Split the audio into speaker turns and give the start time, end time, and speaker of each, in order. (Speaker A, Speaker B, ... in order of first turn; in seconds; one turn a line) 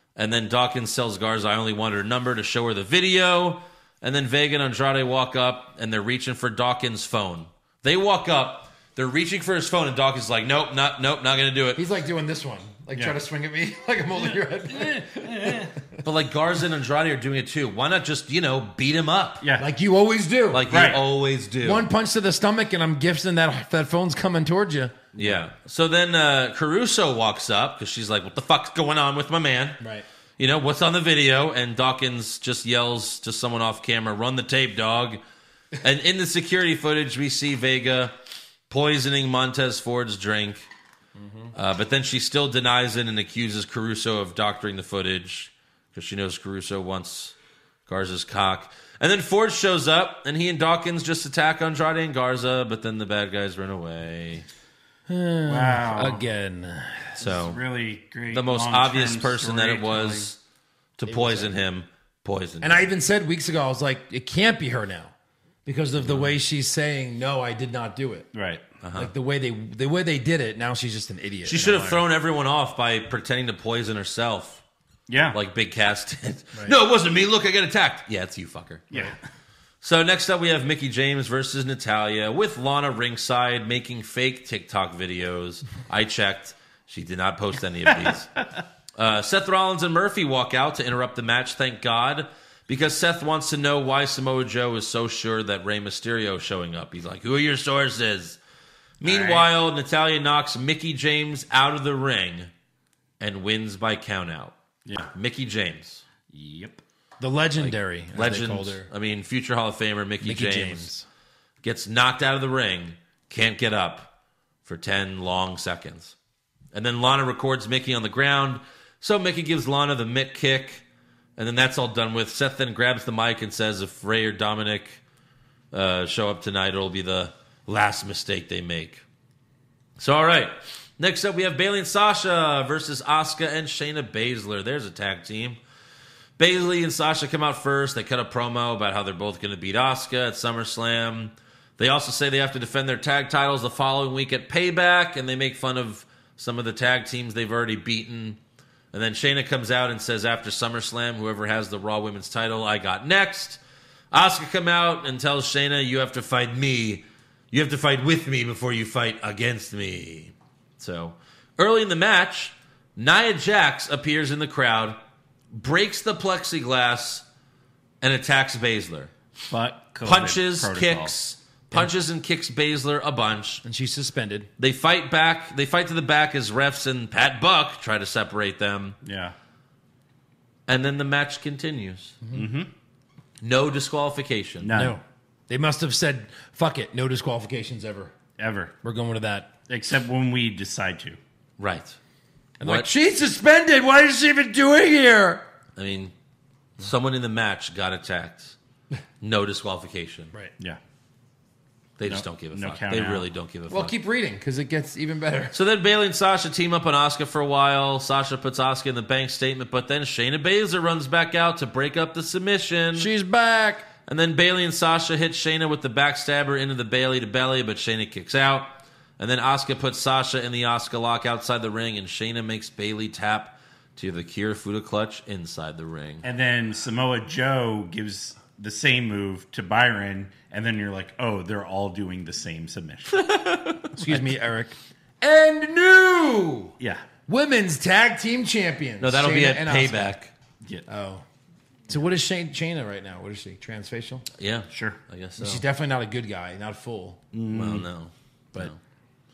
Speaker A: 0.2-11.8
Speaker B: 11.8-15.6
Speaker C: 15.1-15.7
Speaker A: 16.1-19.4
Speaker B: 19.6-20.7
Speaker A: 20.5-21.9
Speaker C: 20.7-21.0
Speaker B: 21.6-25.4
Speaker A: 25.1-29.8
Speaker B: 29.8-30.1
Speaker A: 30.4-35.2
Speaker A: 35.8-38.1
Speaker A: 38.7-40.7
Speaker B: 41.2-41.5
Speaker A: 41.5-47.4
Speaker A: 47.9-54.5
Speaker B: 55.1-57.2
Speaker C: 55.5-56.2
Speaker A: 57.2-57.6
Speaker C: 57.2-60.3
Speaker A: 58.3-60.4
Speaker A: 61.0-62.9
Speaker B: 61.1-61.6
Speaker B: 62.6-65.1
Speaker B: 65.7-68.3
Speaker C: 68.3-68.6
Speaker A: 68.8-69.1
Speaker B: 69.0-72.0
Speaker A: 71.5-74.6
Speaker C: 75.1-75.4
Speaker A: 75.3-78.9
Speaker C: 78.9-79.2
Speaker A: 79.8-88.3
Speaker A: 89.0-98.4
Speaker A: 99.0-102.5
Speaker C: 99.0-99.5
Speaker A: 103.2-104.5
Speaker A: 105.1-106.0
Speaker C: 106.3-106.8
Speaker B: 107.2-108.9
Speaker A: 107.6-110.9
Speaker B: 110.2-111.0
Speaker A: 111.6-114.1
Speaker A: 114.7-116.2
Speaker A: 116.7-120.8
Speaker A: 121.4-125.0
Speaker A: 125.7-129.0
Speaker A: 130.0-135.6
Speaker A: 136.4-148.4
Speaker A: 148.9-153.6
Speaker A: 154.1-165.0
Speaker A: 165.5-167.2
Speaker A: 168.0-169.1
Speaker C: 169.5-171.1
Speaker A: 170.0-173.6
Speaker B: 173.6-174.5
Speaker A: 174.6-179.0
Speaker C: 179.0-179.3
Speaker A: 180.7-182.2
Speaker C: 182.3-182.7
Speaker A: 183.4-184.7
Speaker C: 184.6-185.0
Speaker B: 184.7-188.1
Speaker C: 188.4-188.7
Speaker B: 188.8-189.5
Speaker C: 189.7-191.2
Speaker A: 191.6-192.0
Speaker B: 192.6-195.4
Speaker A: 192.6-192.9
Speaker A: 195.8-196.1
Speaker A: 196.8-198.6
Speaker A: 199.2-200.3
Speaker A: 202.0-203.9
Speaker C: 202.1-203.3
Speaker B: 203.7-205.6
Speaker A: 205.5-213.1
Speaker B: 213.0-213.9
Speaker A: 214.1-226.2
Speaker C: 226.2-233.2
Speaker A: 233.1-234.4
Speaker B: 234.0-236.7
Speaker B: 237.3-240.1
Speaker A: 239.0-240.3
Speaker B: 240.9-241.2
Speaker B: 241.9-244.2
Speaker A: 244.4-245.6
Speaker C: 244.7-245.0
Speaker B: 245.4-247.2
Speaker C: 247.3-247.9
Speaker A: 247.5-248.8